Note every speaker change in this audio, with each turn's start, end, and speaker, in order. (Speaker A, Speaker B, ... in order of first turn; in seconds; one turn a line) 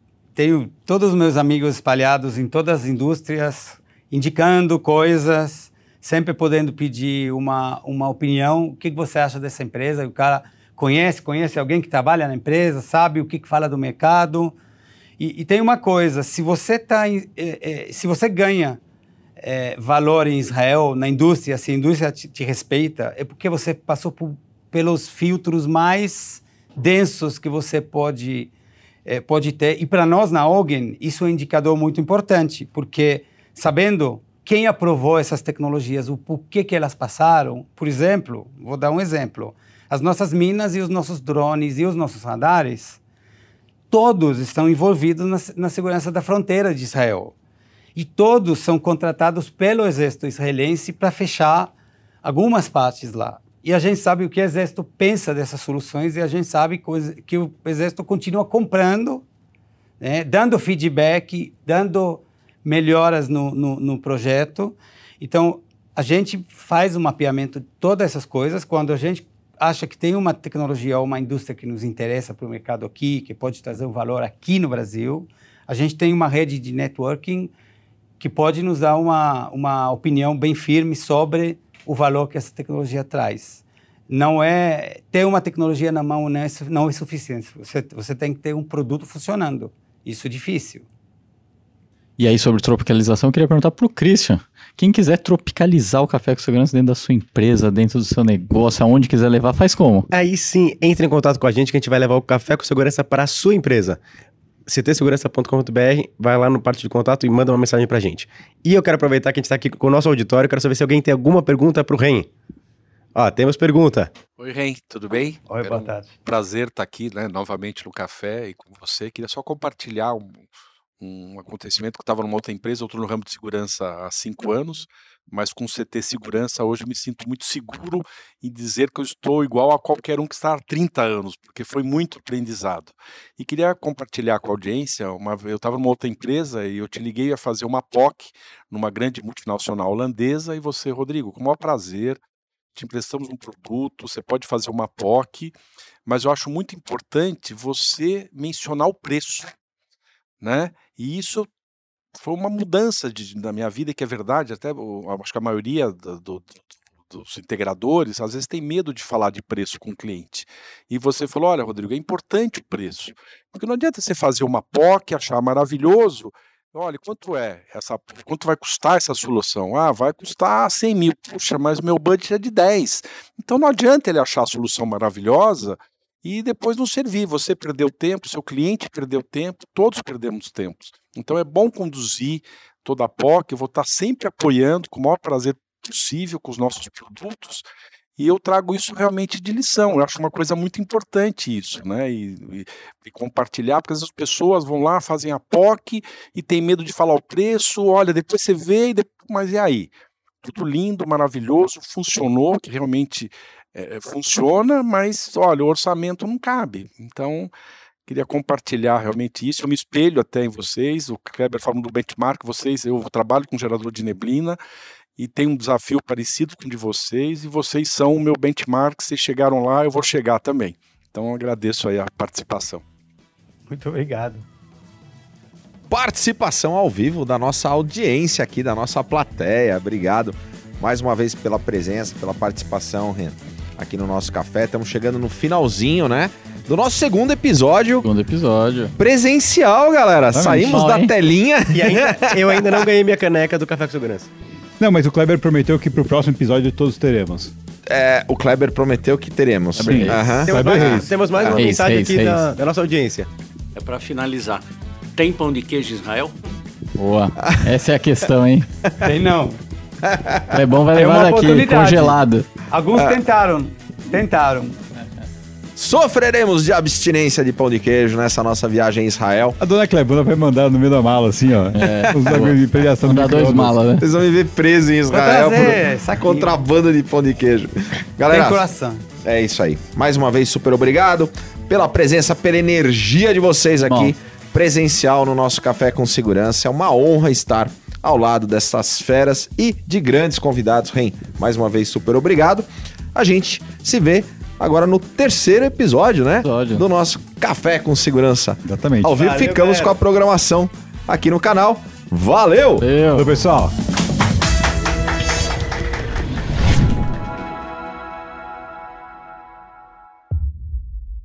Speaker A: 0.3-14.6
Speaker A: 15.2-18.8
Speaker A: 19.4-28.5
Speaker A: 29.1-43.0
Speaker A: 43.9-47.3
Speaker A: 48.0-51.7
Speaker A: 52.2-59.2
Speaker A: 60.0-77.5
Speaker A: 78.2-90.8
Speaker B: 92.2-100.1
Speaker C: 100.1-104.0
Speaker C: 104.7-112.3
Speaker C: 113.1-114.1
Speaker D: 114.4-120.4
Speaker A: 115.5-116.1
Speaker D: 121.0-142.2
Speaker D: 142.7-145.5
Speaker D: 146.1-149.5
Speaker D: 150.4-151.5
Speaker D: 152.2-187.6
Speaker D: 188.2-199.9
Speaker D: 200.4-207.5
Speaker D: 208.1-214.6
Speaker D: 215.2-222.8
Speaker A: 223.7-224.4
Speaker E: 225.9-238.1
Speaker B: 238.0-238.9
Speaker E: 239.0-242.8
Speaker F: 240.3-240.8
Speaker B: 240.5-241.1
Speaker C: 241.7-244.3
Speaker F: 244.8-247.5
Speaker E: 247.9-250.8
Speaker B: 249.8-250.4
Speaker F: 249.8-251.1
Speaker C: 250.4-253.3
Speaker B: 251.5-252.4
Speaker G: 253.8-254.6
Speaker G: 255.2-256.3
Speaker B: 257.0-258.7
Speaker A: 259.0-259.6
Speaker E: 260.1-260.5
Speaker B: 260.5-262.5
Speaker A: 260.9-262.2
Speaker A: 262.7-264.8
Speaker E: 265.8-269.6
Speaker F: 269.6-273.8
Speaker B: 271.7-274.1
Speaker E: 274.0-278.6
Speaker A: 275.1-276.5
Speaker A: 278.3-279.0
Speaker E: 279.2-302.9
Speaker B: 283.8-284.1
Speaker B: 296.4-296.8
Speaker F: 298.6-299.2
Speaker C: 299.1-300.0
Speaker B: 302.8-303.3
Speaker F: 303.1-303.7